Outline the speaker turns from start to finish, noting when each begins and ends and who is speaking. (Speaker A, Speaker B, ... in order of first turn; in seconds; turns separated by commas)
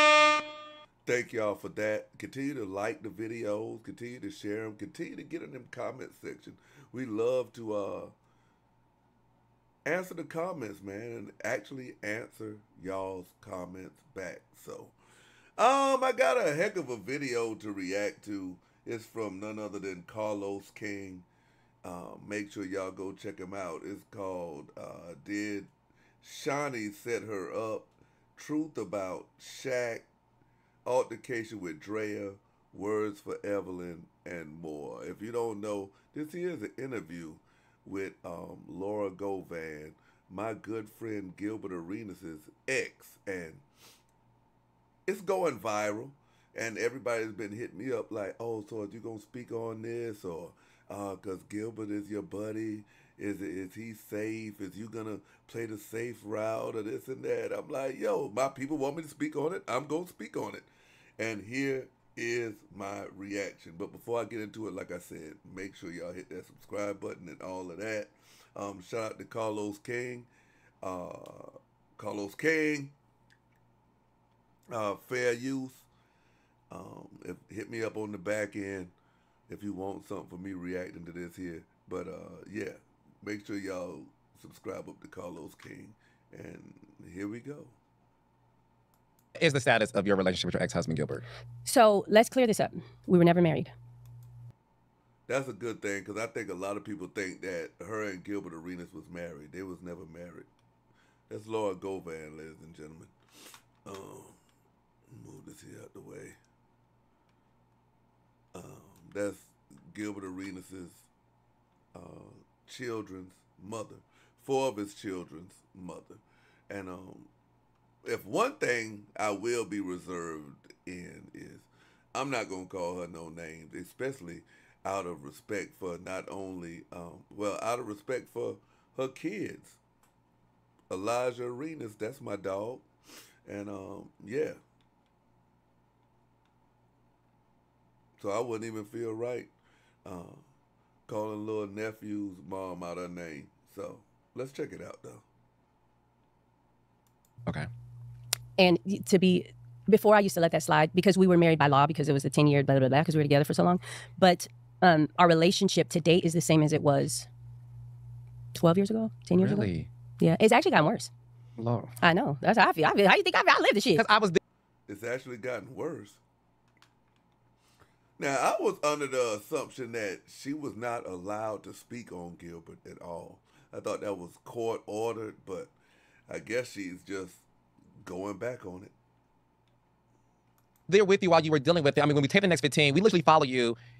Speaker A: 1.1-8.1, Speaker A: 9.8-15.0, Speaker A: 15.6-21.3, Speaker A: 21.8-30.1, Speaker A: 30.9-43.6, Speaker A: 45.1-60.7, Speaker A: 61.2-70.3, Speaker A: 70.8-72.9, Speaker A: 74.7-75.9, Speaker A: 76.7-78.9, Speaker A: 79.5-87.8, Speaker B: 89.4-91.2, Speaker C: 91.7-93.7, Speaker A: 95.3-100.5, Speaker A: 101.3-103.2, Speaker A: 103.8-104.4, Speaker A: 105.1-106.4, Speaker A: 108.5-111.1, Speaker A: 111.9-117.3, Speaker A: 118.0-129.8, Speaker A: 130.9-132.9, Speaker A: 133.5-134.6, Speaker A: 138.2-139.5, Speaker A: 140.1-140.4, Speaker A: 141.1-145.2, Speaker C: 148.6-157.3, Speaker C: 158.5-161.1, Speaker B: 159.4-159.9, Speaker B: 161.6-161.9, Speaker C: 162.0-164.0, Speaker B: 164.0-164.4, Speaker A: 164.9-166.2, Speaker A: 168.2-175.7, Speaker A: 176.3-177.4, Speaker A: 178.0-178.9, Speaker B: 180.9-183.8